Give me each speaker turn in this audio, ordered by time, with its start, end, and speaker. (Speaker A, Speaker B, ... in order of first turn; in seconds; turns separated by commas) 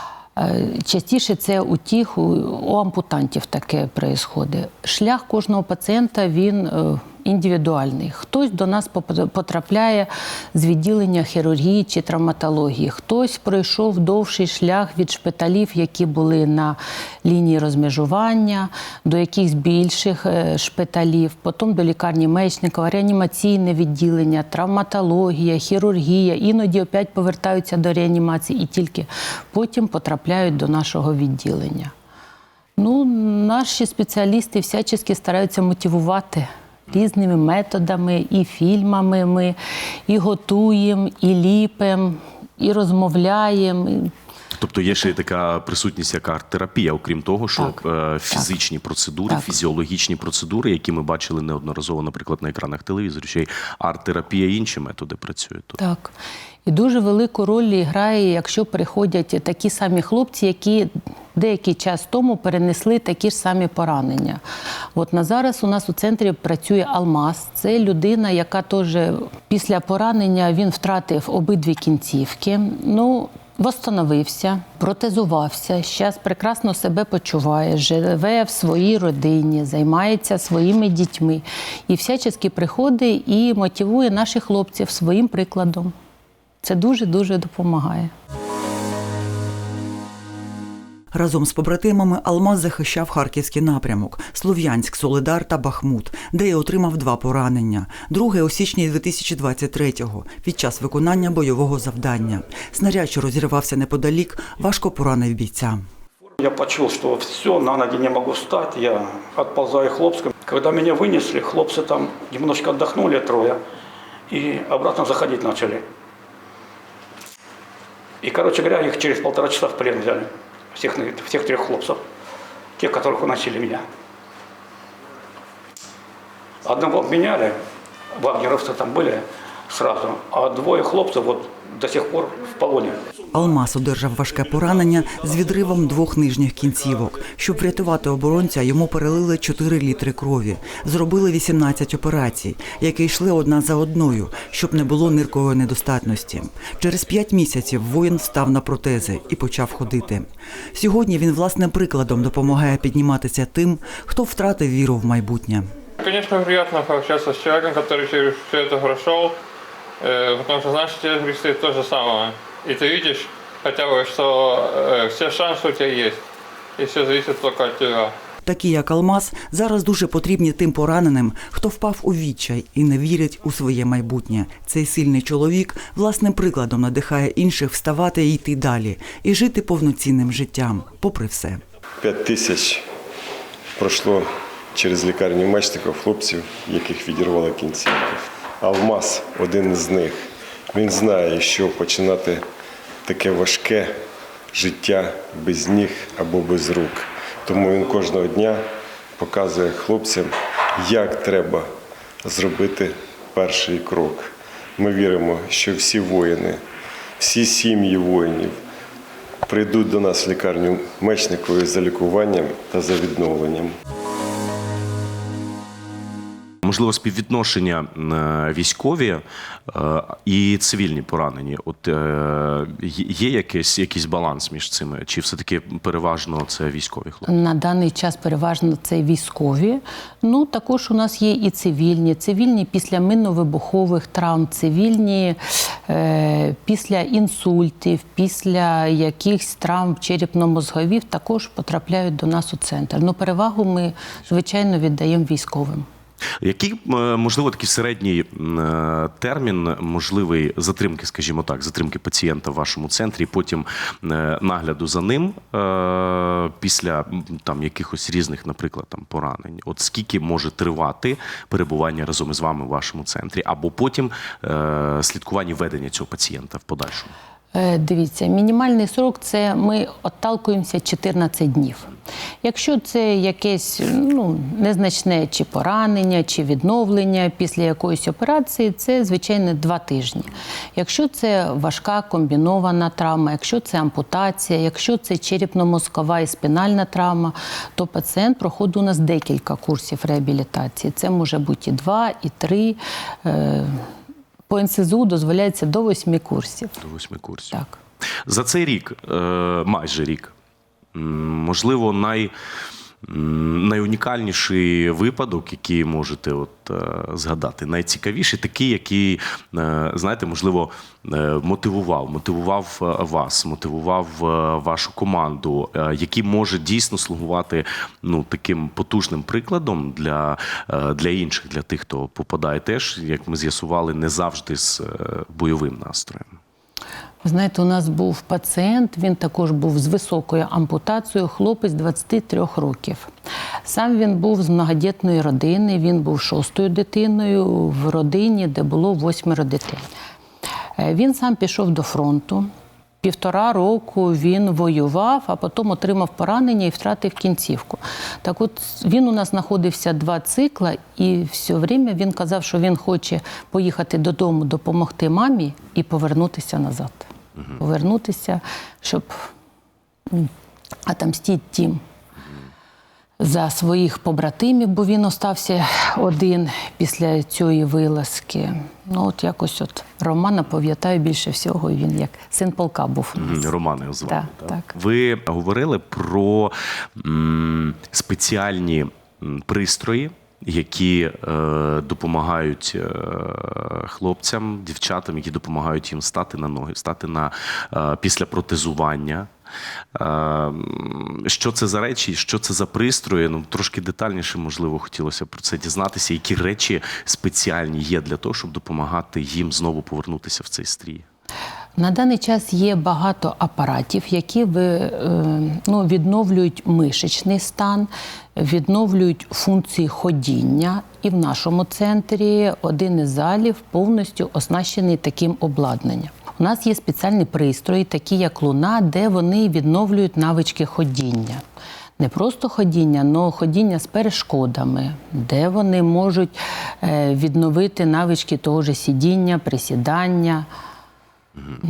Speaker A: 0.4-31.9, Speaker A: 32.8-39.6, Speaker A: 40.1-44.1, Speaker B: 44.5-55.8, Speaker A: 55.8-56.1, Speaker A: 56.7-64.4, Speaker A: 65.0-85.9, Speaker A: 86.6-88.1, Speaker C: 91.1-105.8, Speaker D: 106.4-113.6, Speaker D: 114.3-115.8, Speaker D: 118.2-122.0, Speaker D: 122.8-123.8, Speaker D: 126.6-127.6, Speaker D: 128.1-133.0, Speaker C: 133.3-155.7, Speaker E: 156.0-159.4, Speaker E: 160.0-166.2, Speaker E: 166.8-168.1, Speaker C: 168.4-181.6, Speaker F: 182.0-182.9, Speaker F: 183.8-192.4, Speaker F: 193.1-194.0, Speaker F: 194.5-198.6, Speaker F: 199.2-201.7, Speaker F: 202.2-206.6, Speaker F: 207.2-208.6, Speaker F: 209.5-213.8, Speaker B: 216.6-227.3, Speaker A: 227.3-245.9, Speaker B: 246.4-267.1, Speaker A: 267.5-271.9, Speaker A: 272.4-293.9, Speaker A: 294.5-296.8, Speaker B: 296.8-297.6, Speaker A: 297.5-297.8, Speaker B: 298.2-300.3, Speaker B: 300.9-302.3, Speaker B: 303.0-326.4, Speaker A: 327.2-333.1, Speaker A: 333.7-339.9, Speaker A: 340.8-342.5, Speaker A: 343.0-359.3, Speaker A: 360.9-361.8, Speaker A: 363.2-373.5, Speaker B: 373.2-389.3, Speaker A: 374.1-374.7, Speaker B: 389.9-401.1, Speaker A: 401.8-421.4, Speaker A: 422.0-430.5